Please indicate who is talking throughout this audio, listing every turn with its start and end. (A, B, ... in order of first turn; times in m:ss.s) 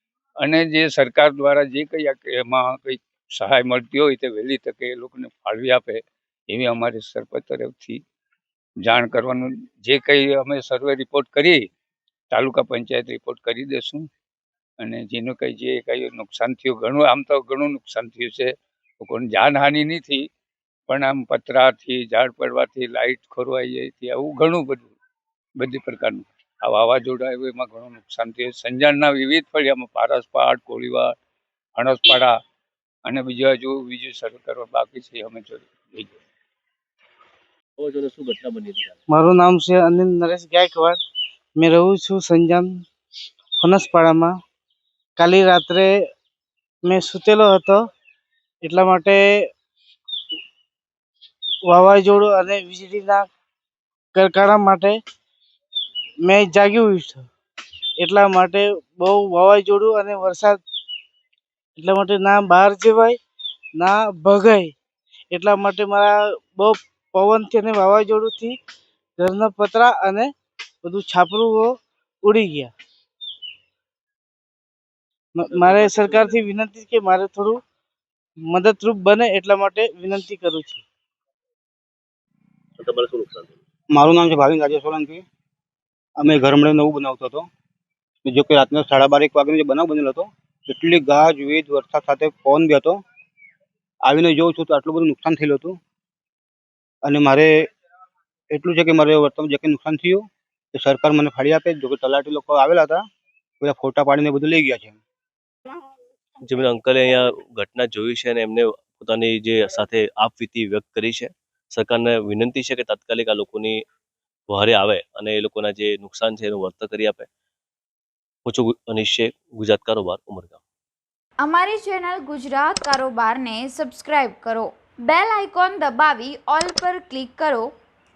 0:00.4-0:08.0 A
0:08.8-0:11.7 A
0:12.3-0:14.1 A
0:14.8-0:20.3 A
0:20.9-0:24.9 A
0:25.6-0:31.2 A
0:31.8-0:32.3 A
0:33.0-0:36.2 A
0:37.8-0:38.9 B
0:39.1-0:41.0 C
0:41.6-0:42.7 C
0:43.6-0:44.4 C
0:45.2-0:45.9 C
0:46.8-0:47.8 C
0:48.6-0:49.4 C
0:51.7-0:53.3 C
0:54.1-0:55.0 C
0:56.2-0:57.3 C
0:58.0-1:00.6 C
1:01.8-1:03.2 C
1:03.8-1:04.7 C
1:05.3-1:08.6 C
1:09.2-1:10.3 C
1:10.8-1:12.7 C
1:15.4-1:17.6 C
1:15.5-1:16.4 B
1:18.5-1:20.8 C
1:22.8-1:23.6 B
1:23.9-1:25.2 D
1:26.2-1:27.5 D
1:28.2-1:33.0 D
1:34.0-1:35.8 D
1:37.0-1:37.5 D
1:38.5-1:43.0 D
1:43.6-1:45.0 D
1:46.4-1:53.8 B
1:54.5-1:57.3 B
1:58.4-2:00.6 B
2:01.4-2:07.7 E